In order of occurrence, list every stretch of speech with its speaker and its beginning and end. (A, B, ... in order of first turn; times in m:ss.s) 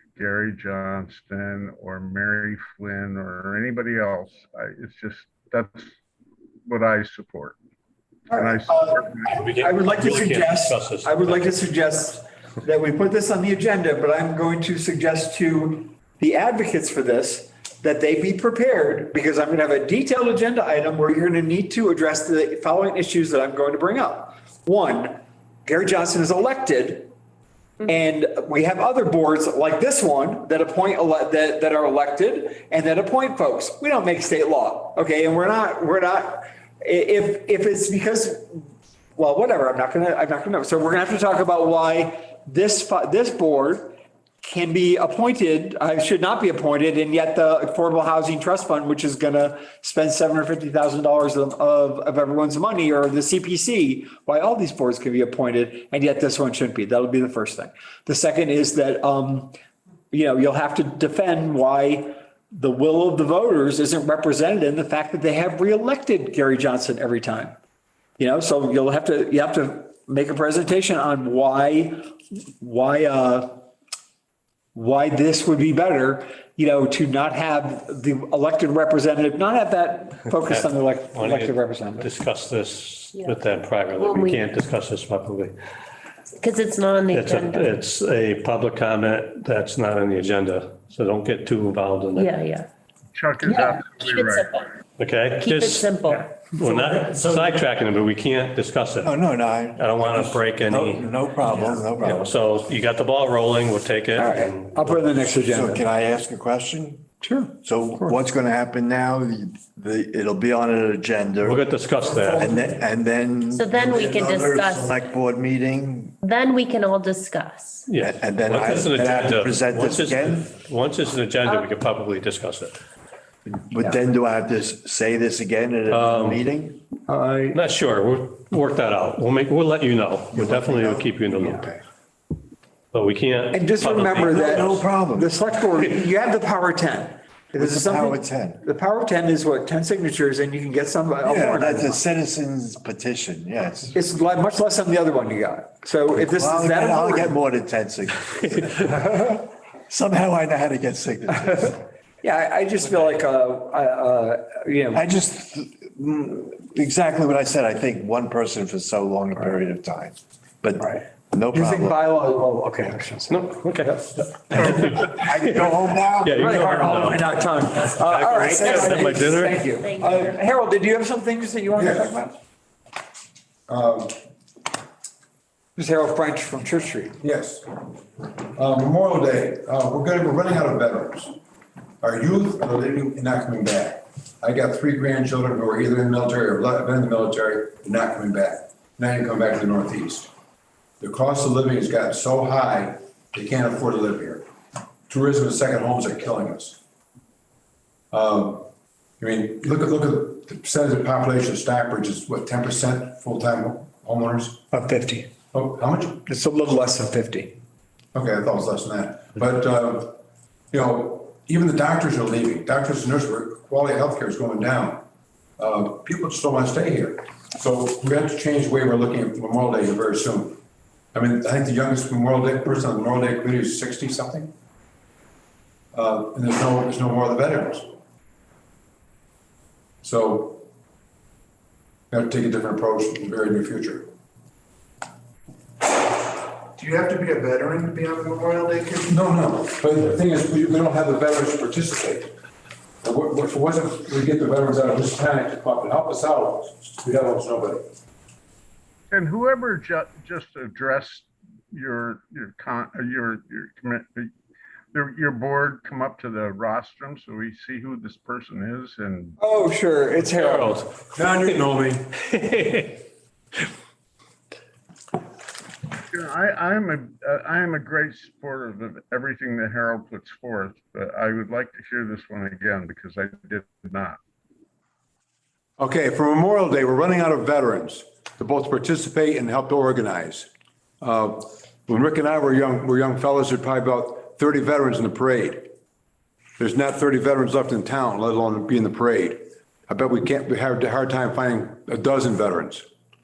0:00.2-0:05.9 A
0:06.7-0:07.6 A
0:08.3-0:27.1 B
0:08.3-0:09.4 A
0:09.3-0:11.5 C
0:27.8-0:59.6 B
1:00.1-1:07.6 B
1:08.2-1:13.6 B
1:14.7-1:22.1 B
1:20.4-1:25.5 C
1:24.0-1:24.5 D
1:26.3-1:27.7 D
1:27.1-1:32.3 C
1:32.2-1:34.7 D
1:33.4-1:34.5 A
1:35.0-1:39.1 C
1:35.4-1:36.4 D
1:39.0-1:42.3 E
1:39.8-1:45.0 C
1:44.2-1:45.8 B
1:45.5-1:51.6 E
1:47.2-1:47.5 B
1:51.4-1:52.5 C
1:52.3-1:56.2 E
1:53.5-1:55.0 D
1:56.2-1:57.9 D
1:57.9-2:02.8 C
1:58.0-2:00.5 E
2:01.4-2:01.7 D
2:03.5-2:06.8 E
2:05.9-2:06.4 C
2:07.1-2:07.6 B
2:07.5-2:11.7 C
2:10.3-2:11.8 E
2:12.9-2:14.8 C
2:13.5-2:22.0 B
2:14.2-2:15.4 E
2:17.6-2:18.6 E
2:21.2-2:24.0 E
2:23.9-2:27.4 B
2:26.2-2:31.8 E
2:31.4-2:35.1 B
2:34.9-2:42.0 E
2:40.8-2:45.1 B
2:43.3-2:47.3 C
2:44.5-2:46.4 E
2:46.4-2:52.4 B
2:47.9-2:49.7 C
2:49.8-2:50.3 D
2:51.8-2:52.1 F
2:53.7-2:54.2 F
2:55.8-2:57.2 B
2:57.2-2:57.7 F
2:58.5-3:01.3 F
3:02.0-3:10.3 F
3:11.0-3:14.4 F
3:15.1-3:16.8 F
3:18.1-3:18.7 F
3:19.2-3:24.6 F
3:24.7-3:25.3 B
3:25.5-3:26.2 F
3:26.3-3:27.6 B
3:28.2-3:30.2 F
3:30.7-3:35.0 F
3:35.6-3:40.6 F
3:41.1-3:44.5 F
3:45.9-3:47.9 F
3:50.0-3:50.7 F
3:52.1-3:54.1 F
3:56.8-3:59.1 G
3:59.1-4:02.3 F
4:03.0-4:07.9 F
4:09.1-4:14.3 A
4:14.9-4:19.4 A
4:19.4-4:20.8 B
4:20.4-4:20.9 C
4:21.2-4:22.0 F
4:22.2-4:23.0 C
4:26.1-4:34.2 A
4:35.8-4:40.5 F
4:41.0-4:45.7 F
4:46.6-4:52.8 F